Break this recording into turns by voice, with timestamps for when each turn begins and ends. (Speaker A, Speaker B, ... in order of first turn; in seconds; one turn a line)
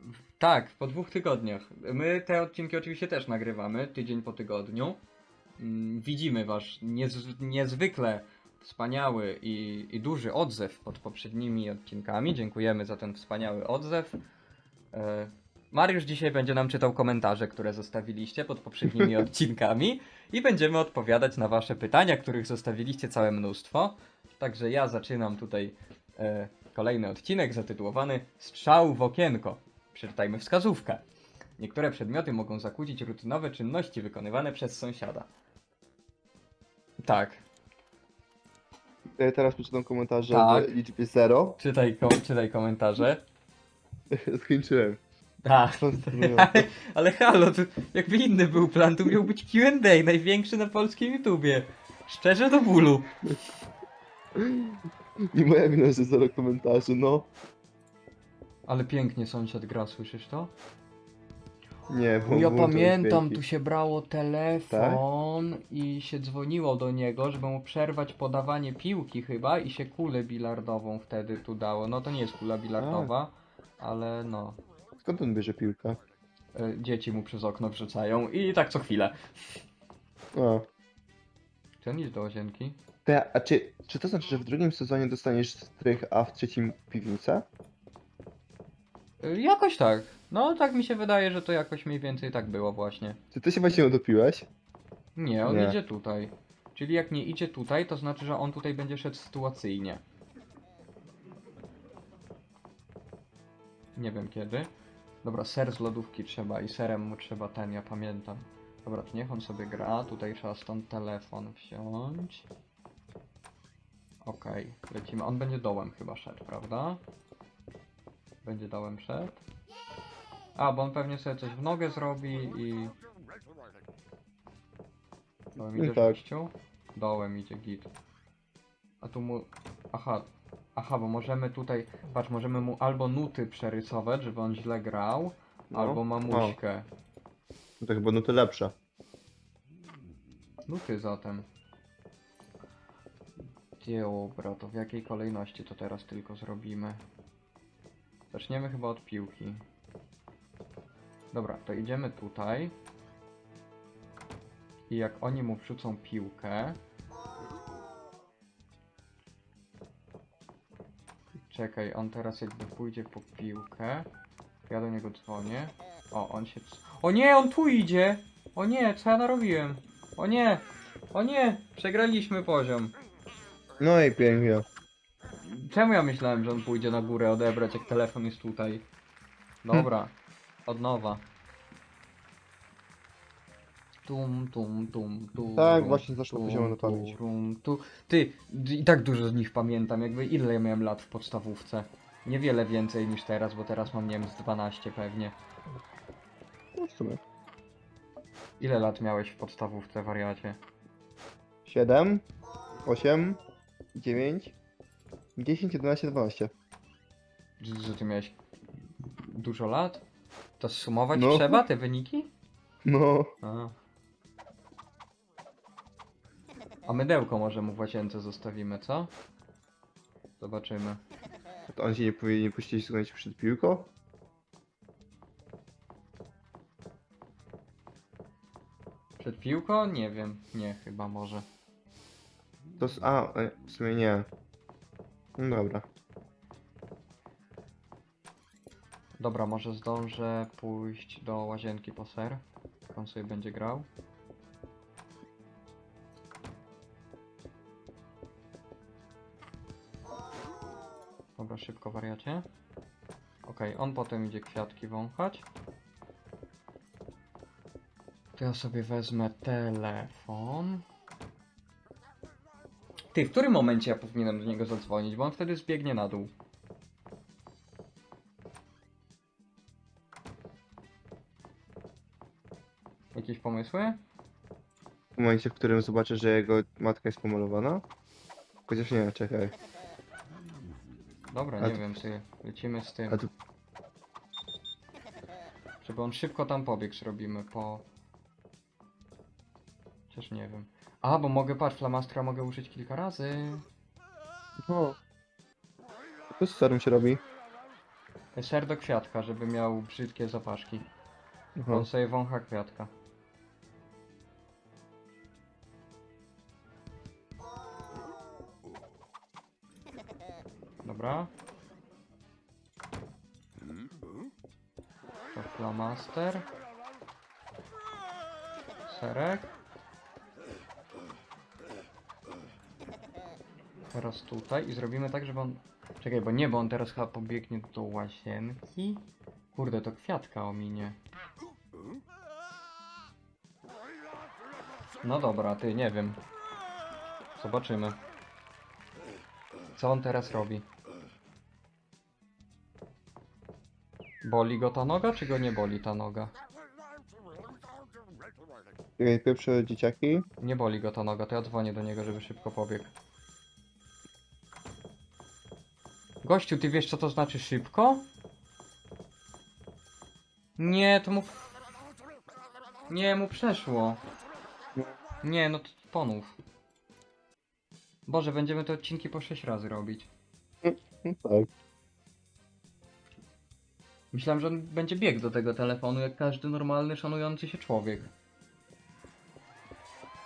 Speaker A: 0.4-5.0
Speaker A: 5.6-14.2
Speaker A: 14.9-31.0
Speaker A: 31.6-35.3
Speaker A: 37.0-37.4
Speaker B: 39.2-41.6
Speaker A: 40.3-40.7
Speaker A: 41.6-43.2
Speaker B: 44.1-45.0
Speaker A: 45.4-53.3
Speaker B: 45.7-46.7
Speaker B: 54.3-54.8
Speaker B: 55.3-57.3
Speaker A: 58.7-60.5
Speaker B: 61.9-63.4
Speaker A: 62.2-74.6
Speaker B: 64.7-65.0
Speaker B: 72.8-73.1
Speaker B: 75.0-76.0
Speaker A: 76.5-79.6
Speaker B: 80.3-80.7
Speaker A: 81.8-82.8
Speaker B: 83.0-87.5
Speaker A: 89.2-93.2
Speaker B: 93.3-94.5
Speaker A: 95.2-100.0
Speaker B: 95.4-95.8
Speaker A: 103.9-104.7
Speaker A: 105.2-112.5
Speaker A: 114.2-117.0
Speaker A: 118.4-119.4
Speaker A: 120.5-122.9
Speaker B: 125.5-126.2
Speaker A: 125.6-127.9
Speaker A: 129.0-136.8
Speaker B: 135.7-136.6
Speaker B: 137.8-138.7
Speaker A: 140.7-141.4
Speaker A: 143.8-147.0
Speaker A: 148.3-149.6
Speaker A: 151.3-152.7
Speaker A: 154.9-156.8
Speaker A: 161.5-164.1
Speaker A: 164.7-172.9
Speaker B: 173.8-174.7
Speaker A: 175.5-178.8
Speaker A: 179.6-180.1
Speaker A: 180.7-181.2
Speaker A: 184.0-195.3
Speaker B: 185.5-187.2
Speaker B: 196.8-197.2
Speaker A: 198.6-200.6
Speaker B: 201.7-202.2
Speaker B: 202.8-203.4
Speaker B: 203.9-204.5
Speaker B: 205.3-206.5
Speaker A: 207.6-208.3
Speaker A: 209.1-210.0
Speaker A: 210.6-212.3
Speaker B: 211.1-211.6
Speaker B: 212.8-213.3
Speaker A: 213.4-213.7
Speaker A: 216.8-219.1
Speaker A: 220.4-221.0
Speaker B: 221.7-223.9
Speaker A: 229.2-231.4
Speaker B: 232.8-234.3
Speaker B: 235.4-235.8
Speaker A: 239.2-243.8
Speaker A: 251.4-252.4
Speaker A: 253.4-255.4
Speaker A: 258.4-260.8
Speaker A: 263.1-266.3
Speaker A: 273.1-274.0
Speaker B: 275.1-277.8
Speaker B: 278.7-279.5
Speaker A: 281.3-283.2
Speaker A: 285.8-287.8
Speaker A: 290.1-293.6
Speaker B: 294.7-295.0
Speaker B: 296.4-297.2
Speaker A: 298.3-300.8
Speaker B: 301.6-301.9
Speaker A: 301.7-302.9
Speaker A: 310.8-311.3
Speaker A: 315.3-316.4
Speaker A: 318.9-319.5
Speaker A: 323.9-331.0
Speaker A: 335.0-336.2
Speaker A: 337.4-338.0
Speaker A: 339.7-340.6
Speaker A: 344.2-346.3
Speaker B: 349.0-350.2
Speaker A: 350.4-352.9
Speaker A: 356.2-358.0
Speaker A: 360.6-361.5
Speaker A: 362.9-364.0
Speaker A: 365.2-366.4
Speaker A: 368.1-370.1
Speaker B: 370.6-371.5
Speaker A: 374.1-378.1